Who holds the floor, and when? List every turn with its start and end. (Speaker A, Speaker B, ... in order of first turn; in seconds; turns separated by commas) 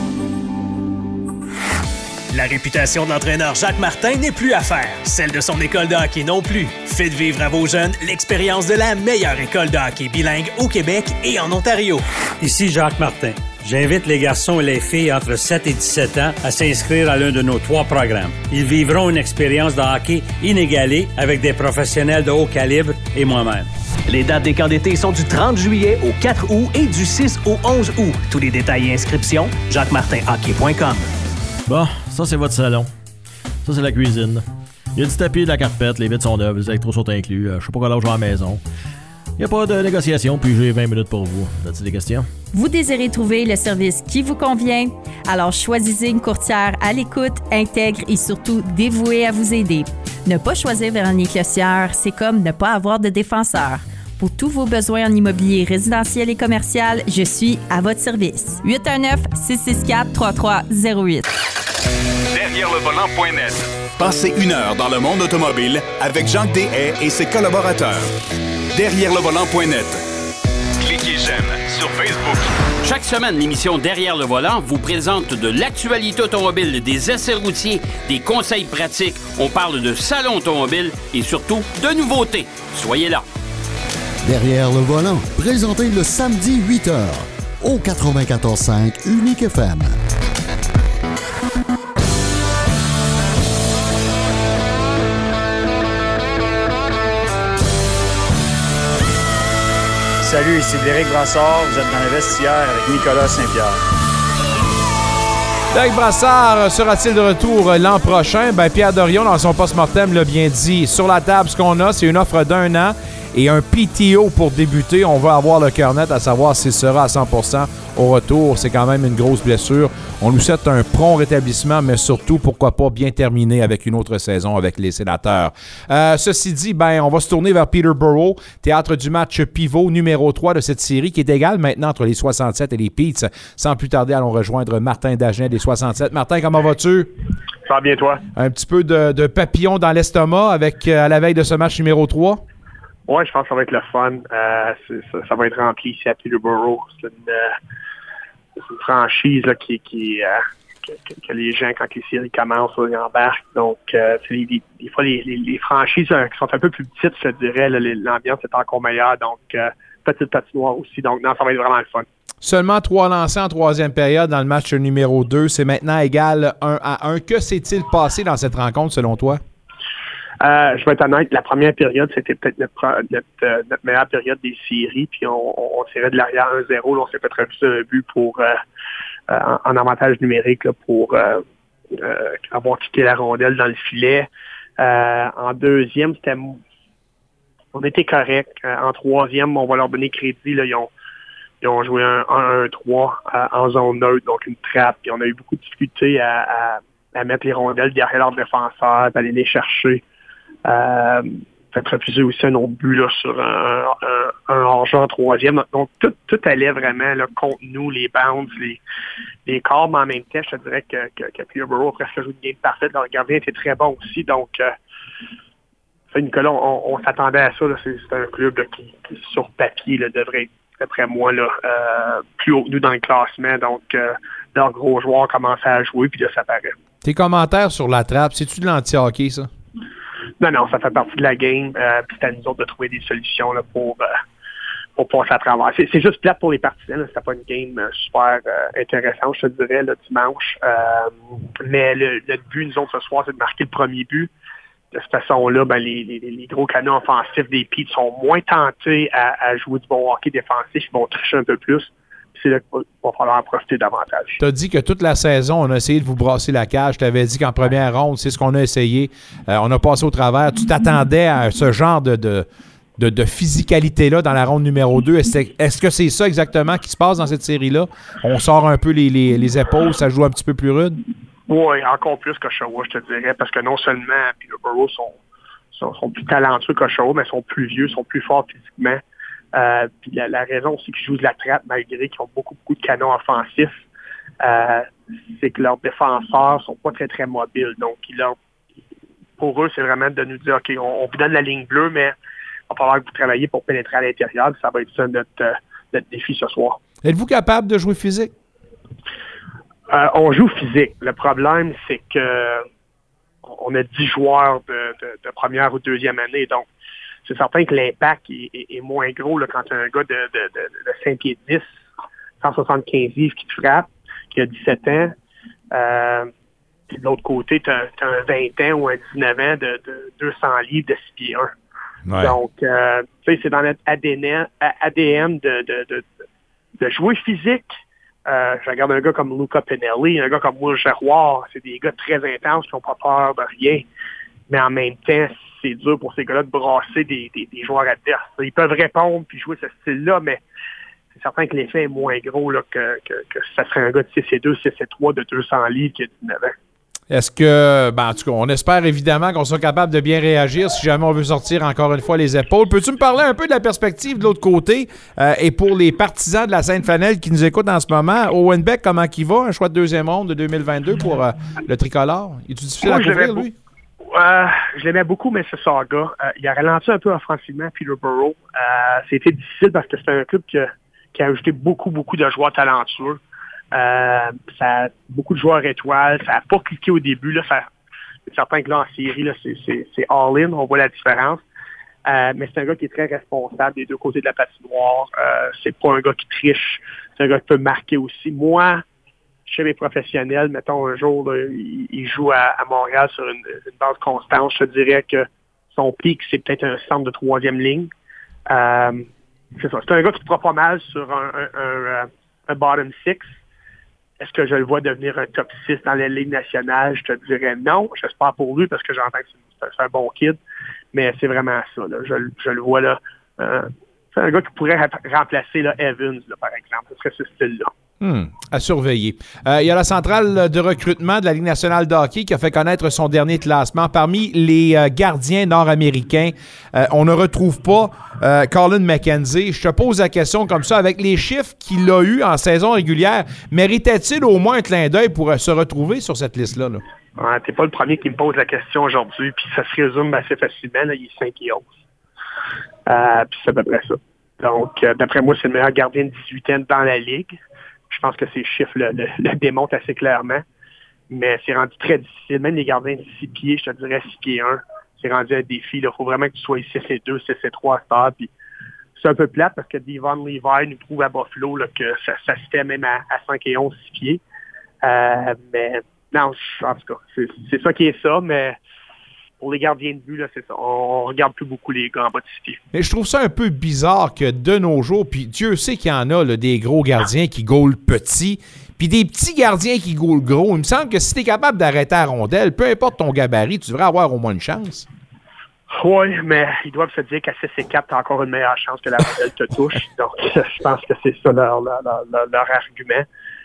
Speaker A: 2.3-12.0, Speaker B: 12.4-23.7, Speaker A: 24.1-31.1, Speaker C: 31.7-32.9, Speaker C: 33.6-34.4, Speaker C: 35.0-38.6, Speaker C: 39.4-42.3, Speaker D: 42.5-61.2, Speaker E: 62.3-68.1, Speaker E: 68.8-70.0, Speaker E: 70.8-72.4, Speaker F: 72.8-83.2, Speaker G: 84.2-90.0, Speaker H: 100.2-103.8, Speaker I: 105.7-137.1, Speaker J: 137.7-138.2, Speaker I: 138.3-142.4, Speaker J: 143.1-147.6, Speaker J: 148.6-162.1, Speaker I: 162.4-169.4, Speaker J: 170.4-178.6, Speaker J: 179.3-181.4, Speaker J: 182.0-186.6, Speaker J: 187.7-190.9, Speaker J: 191.6-200.0, Speaker J: 200.7-208.8, Speaker J: 209.5-214.7, Speaker J: 216.1-226.8, Speaker I: 227.0-229.5, Speaker J: 230.4-234.2, Speaker J: 235.0-244.3, Speaker J: 244.9-254.4, Speaker I: 254.4-271.0, Speaker J: 271.5-275.2, Speaker J: 275.7-279.0, Speaker J: 279.5-283.9, Speaker J: 284.4-288.4, Speaker J: 289.4-292.1, Speaker J: 292.7-296.8, Speaker I: 297.0-298.3, Speaker J: 299.9-302.7, Speaker J: 303.4-306.7, Speaker J: 307.2-311.8, Speaker J: 312.4-315.1, Speaker J: 315.7-316.3, Speaker J: 316.9-321.5, Speaker I: 322.1-322.4, Speaker J: 322.2-326.1, Speaker J: 326.8-327.7, Speaker J: 328.3-333.9, Speaker J: 334.5-340.4, Speaker J: 341.1-346.6, Speaker I: 347.1-363.5, Speaker J: 362.8-363.5, Speaker J: 364.1-373.2, Speaker J: 373.7-377.7, Speaker J: 378.3-381.4, Speaker J: 382.1-388.8, Speaker J: 389.5-397.9, Speaker J: 398.5-403.4, Speaker J: 404.2-410.4, Speaker J: 410.9-417.7, Speaker I: 418.0-436.8, Speaker J: 437.2-441.8, Speaker J: 442.9-447.3, Speaker J: 447.9-450.4, Speaker J: 451.1-458.3, Speaker J: 459.0-464.2, Speaker J: 464.8-468.6, Speaker J: 469.4-472.6, Speaker I: 472.7-484.9, Speaker J: 485.7-493.1